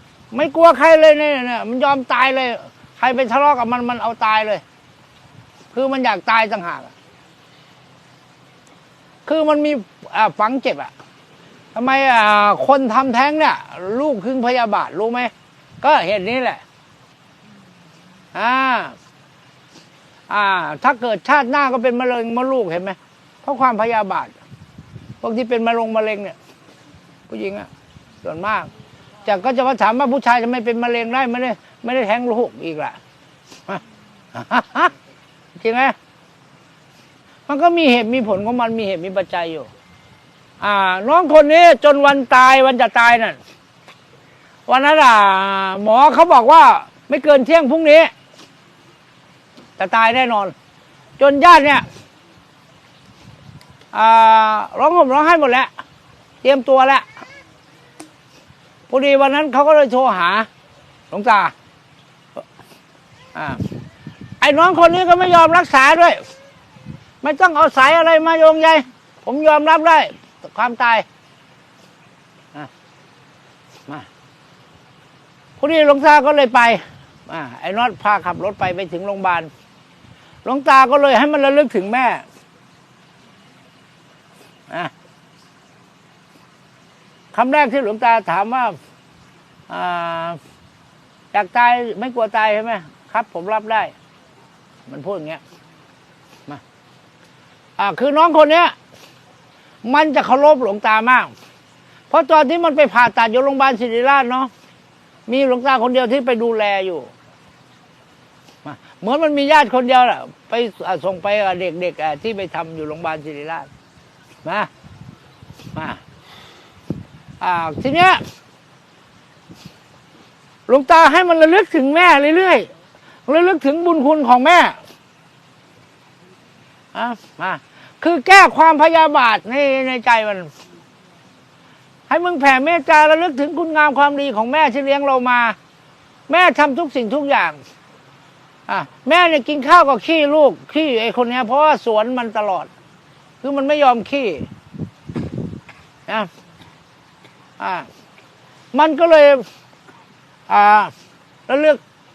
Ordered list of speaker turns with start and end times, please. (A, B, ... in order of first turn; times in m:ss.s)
0:00.3-0:04.6 A
0:05.7-0:06.9 A
0:09.2-0:10.9 A
0:11.7-0:16.6 A
0:18.3-0:19.0 A
0:20.3-0:24.3 A
0:25.2-0:26.3 A
0:27.3-0:27.7 A
0:28.2-0:28.7 A
0:29.2-0:33.0 A
0:34.3-0:34.9 A
0:35.6-0:35.9 A
0:37.5-0:39.7 A
0:40.6-0:43.4 A
0:44.7-0:48.1 A
0:49.8-0:50.5 A
0:51.2-0:51.8 A
0:53.9-0:55.7 A
0:56.4-0:57.0 A
0:58.9-1:00.5 A
1:01.1-1:01.5 A
1:03.3-1:03.6 A
1:04.4-1:06.2 A
1:07.2-1:11.0 A
1:15.6-1:19.5 A
1:20.4-1:22.2 A
1:27.3-1:28.8 A
1:29.7-1:30.4 A
1:31.3-1:33.9 A
1:34.9-1:35.4 A
1:37.8-1:38.8 A
1:39.8-1:41.3 A
1:42.1-1:44.5 A
1:45.3-1:47.1 A
1:48.6-1:53.7 A
1:55.8-1:56.0 A
1:57.4-1:58.2 A
2:00.7-2:02.7 A
2:03.3-2:04.8 A
2:06.9-2:10.5 A
2:12.1-2:15.6 A
2:16.3-2:17.6 A
2:18.7-2:22.7 A
2:23.4-2:24.5 A
2:27.6-2:27.9 A
2:28.7-2:29.5 A
2:30.5-2:30.9 A
2:31.5-2:31.8 A